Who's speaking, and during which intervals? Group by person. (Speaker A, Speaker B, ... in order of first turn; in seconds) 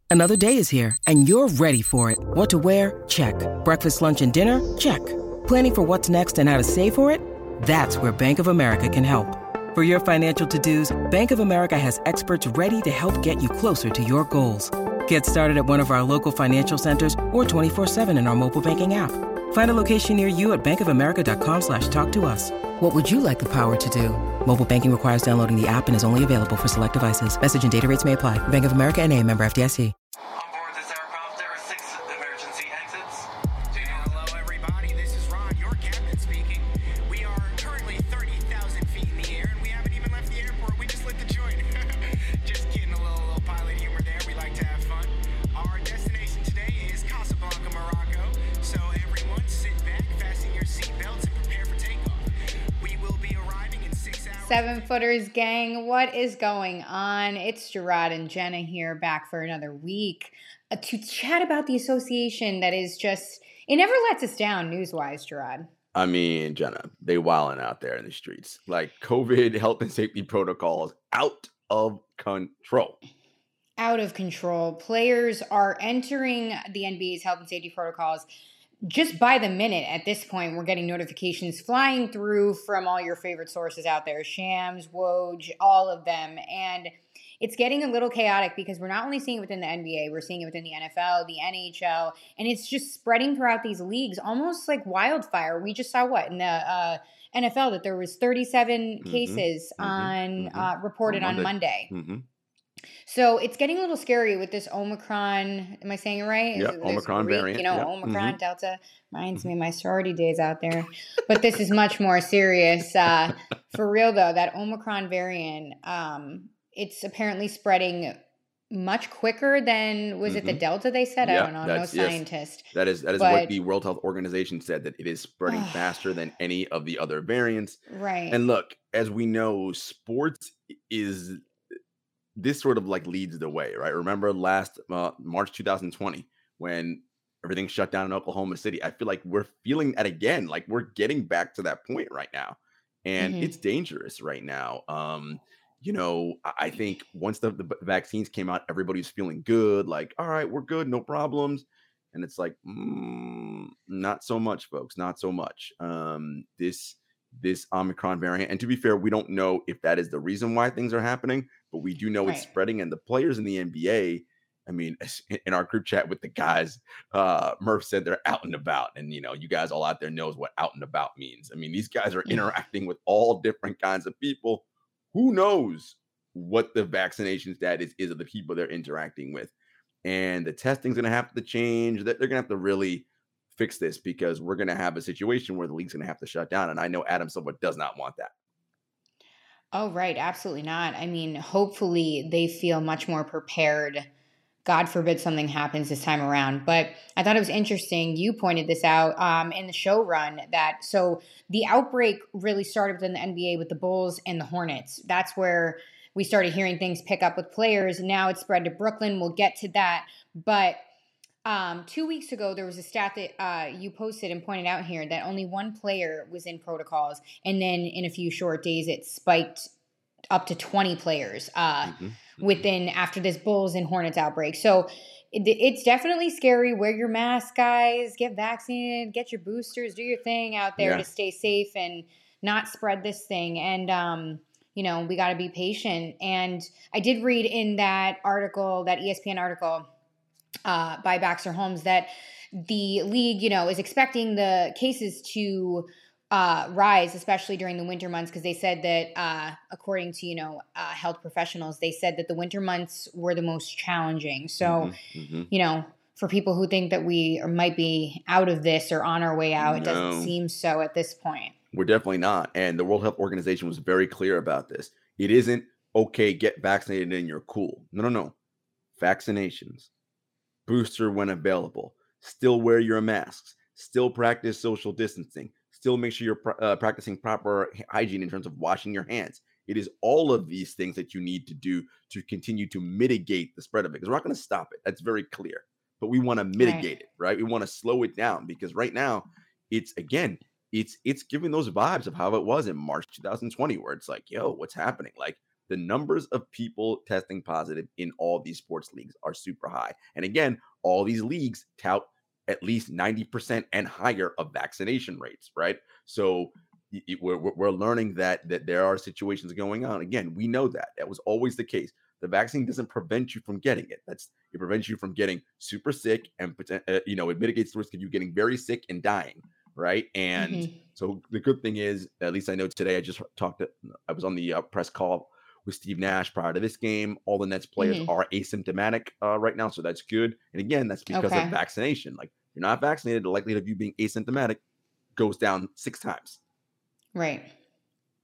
Speaker A: 0.1-41.7, 42.4-52.2, 52.8-54.7
Speaker B: 54.4-65.7, 73.8-78.3, 78.8-101.9, 103.0-118.2, 118.7-123.5, 125.5-126.1, 127.9-128.4, 143.2-143.5, 189.7-194.1, 194.6-210.8, 211.4-219.7, 220.3-239.9, 240.6-254.9, 255.5-261.5, 286.6-286.9, 320.4-320.8, 327.8-328.1, 331.1-331.5, 337.1-337.5
Speaker C: 65.9-73.0, 99.0-102.2, 106.5-108.4, 120.2-120.6, 121.2-122.2, 122.7-131.4, 132.3-179.5, 180.0-188.3, 221.8-222.6, 230.8-231.0, 254.6-255.5, 259.6-260.3, 261.7-268.3, 269.0-269.9, 270.7-334.6, 335.1-336.4